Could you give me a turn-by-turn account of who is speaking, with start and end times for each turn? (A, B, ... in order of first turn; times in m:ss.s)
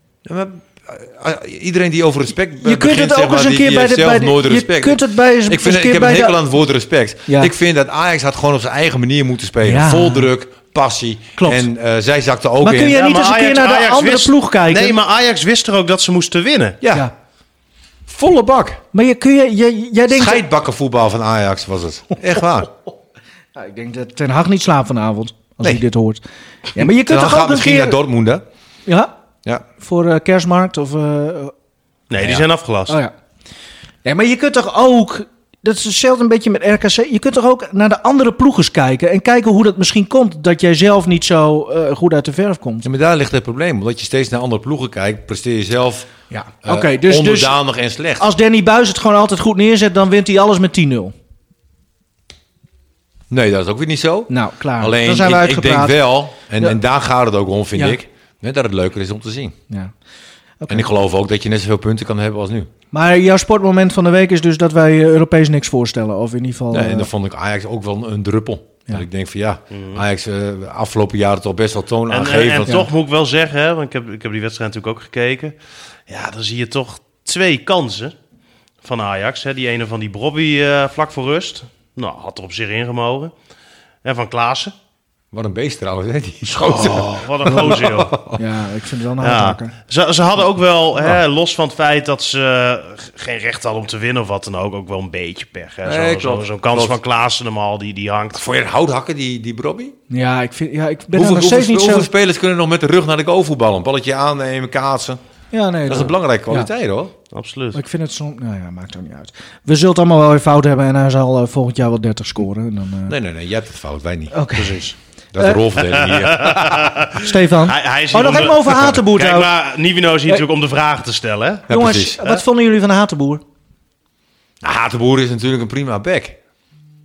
0:00.2-0:13.0 A
0:02.6-0:06.4 B
0:07.3-0:07.5 B
0:09.6-0:10.3 B
0:11.4-0:11.7 B
0:12.6-0:15.0 B
0:12.9-0:16.8 C
0:16.8-0:17.1 A
0:18.1-0:18.8 A
0:18.9-0:20.4 B
0:20.1-0:22.7 A
0:23.6-0:26.2 B
0:26.7-0:28.0 B
0:26.8-0:28.4 A
0:28.9-0:29.1 B
0:29.8-0:31.5 B
0:32.1-0:33.0 C
0:32.2-0:32.4 A
0:32.9-0:33.1 B
0:34.0-0:42.9 B
0:42.8-0:46.1 A
0:46.3-0:47.6 B
0:46.6-0:48.3 A
0:48.2-0:51.1 B
0:53.3-0:59.6 A
0:54.3-0:56.0 B
1:00.6-1:00.9 B
1:00.7-1:02.7 A
1:02.9-1:07.1 B
1:06.7-1:12.8 A
1:09.7-1:10.0 C
1:12.1-1:15.6 C
1:16.1-1:18.2 C
1:18.8-1:23.3 C
1:24.0-1:24.7 C
1:25.3-1:28.4 A
1:26.6-1:28.2 C
1:28.4-1:29.7 B
1:29.2-1:38.4 C
1:35.8-1:37.0 A
1:38.3-1:40.0 A
1:40.1-1:42.1 B
1:41.1-1:45.2 A
1:45.5-1:46.7 B
1:45.9-1:47.1 A
1:47.3-1:47.8 C
1:47.7-1:53.2 B
1:53.1-1:54.4 A
1:54.3-1:55.6 B
1:54.6-1:54.9 C
1:55.3-1:56.9 A
1:55.8-2:01.7 C
1:57.2-1:59.5 B
2:01.7-2:02.2 A
2:01.7-2:03.4 B
2:04.6-2:06.4 A